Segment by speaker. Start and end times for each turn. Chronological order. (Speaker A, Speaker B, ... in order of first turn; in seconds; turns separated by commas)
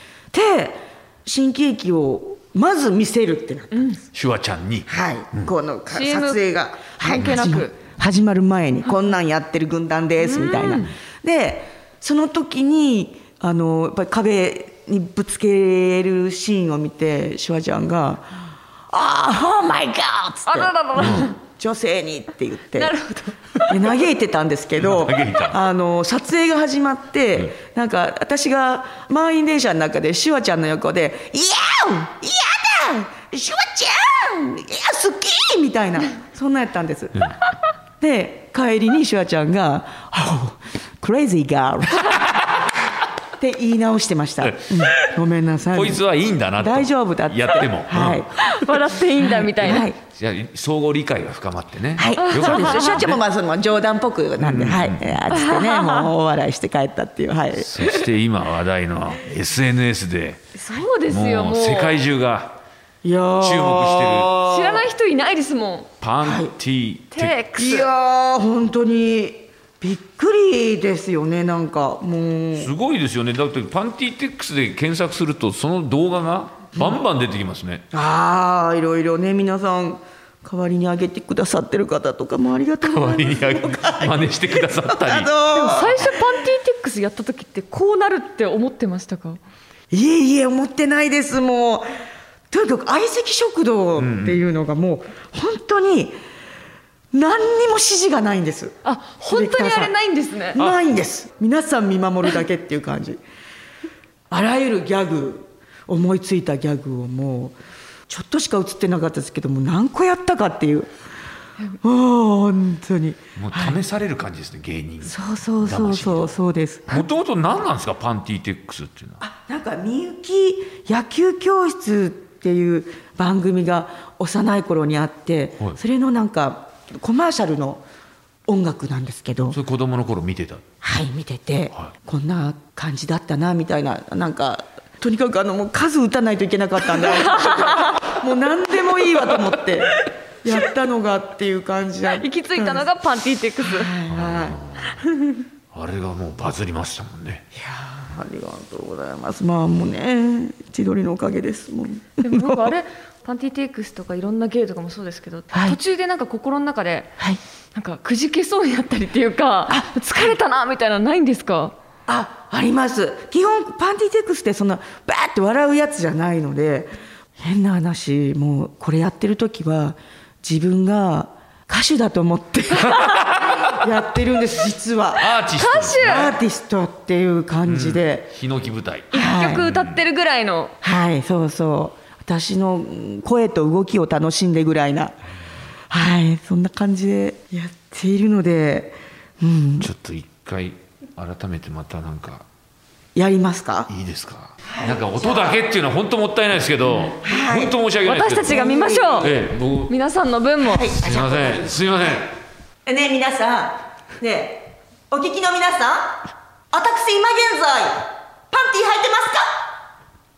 Speaker A: 0.3-4.0, Speaker B: 3.7-4.0, Speaker C: 4.1-5.5, Speaker A: 4.9-18.4, Speaker B: 5.9-6.4, Speaker B: 7.0-7.7, Speaker B: 10.2-10.9, Speaker A: 18.9-22.9, Speaker B: 20.5-21.4, Speaker B: 22.8-23.4, Speaker A: 23.7-37.3, Speaker C: 24.8-25.6, Speaker A: 38.0-42.2, Speaker A: 43.4-46.0, Speaker C: 44.4-45.1, Speaker C: 45.7-48.2, Speaker A: 46.6-48.5, Speaker B: 48.4-49.9, Speaker A: 49.2-50.0, Speaker C: 50.0-53.2, Speaker A: 52.0-58.1, Speaker B: 52.2-52.9, Speaker C: 54.4-55.1, Speaker B: 55.5-56.1, Speaker C: 57.5-60.4, Speaker B: 60.5-62.0, Speaker C: 61.1-62.6, Speaker A: 63.0-64.8, Speaker C: 63.4-64.4, Speaker B: 64.5-65.9, Speaker C: 66.0-67.4, Speaker A: 66.2-66.5, Speaker B: 67.1-67.9, Speaker A: 67.5-72.7, Speaker C: 72.6-77.8, Speaker A: 77.9-86.3, Speaker C: 82.8-85.3, Speaker B: 85.5-89.4, Speaker A: 89.9-91.9, Speaker A: 92.5-96.2, Speaker C: 94.0-94.4, Speaker A: 97.1-99.9, Speaker B: 98.8-100.6, Speaker A: 100.5-103.2, Speaker A: 104.3-107.6, Speaker A: 108.1-110.9, Speaker A: 111.8-113.8, Speaker C: 113.4-116.3, Speaker A: 115.0-117.1, Speaker C: 116.9-119.2, Speaker A: 119.2-127.8, Speaker A: 128.5-129.6, Speaker C: 129.5-130.6, Speaker A: 130.8-142.8, Speaker B: 137.3-138.0, Speaker B: 142.1-143.9, Speaker A: 143.6-144.6, Speaker C: 144.1-145.0, Speaker C: 145.7-147.4, Speaker A: 147.6-152.7, Speaker B: 152.2-157.2, Speaker A: 155.5-155.8, Speaker B: 157.8-161.8, Speaker A: 159.7-160.4, Speaker A: 162.1-175.4, Speaker C: 172.8-173.7, Speaker C: 175.2-176.3, Speaker B: 175.6-176.3, Speaker A: 176.0-178.3, Speaker C: 177.7-180.0, Speaker B: 179.1-180.7, Speaker A: 179.1-179.7, Speaker A: 180.8-185.1, Speaker A: 185.9-189.9, Speaker C: 189.8-192.5, Speaker A: 193.2-193.9, Speaker C: 193.9-198.7, Speaker A: 194.7-195.5, Speaker A: 197.1-197.8, Speaker B: 198.0-199.3, Speaker A: 198.4-199.4, Speaker C: 199.2-199.9, Speaker B: 199.9-201.0, Speaker A: 200.6-201.7, Speaker C: 201.0-202.3, Speaker A: 202.9-209.6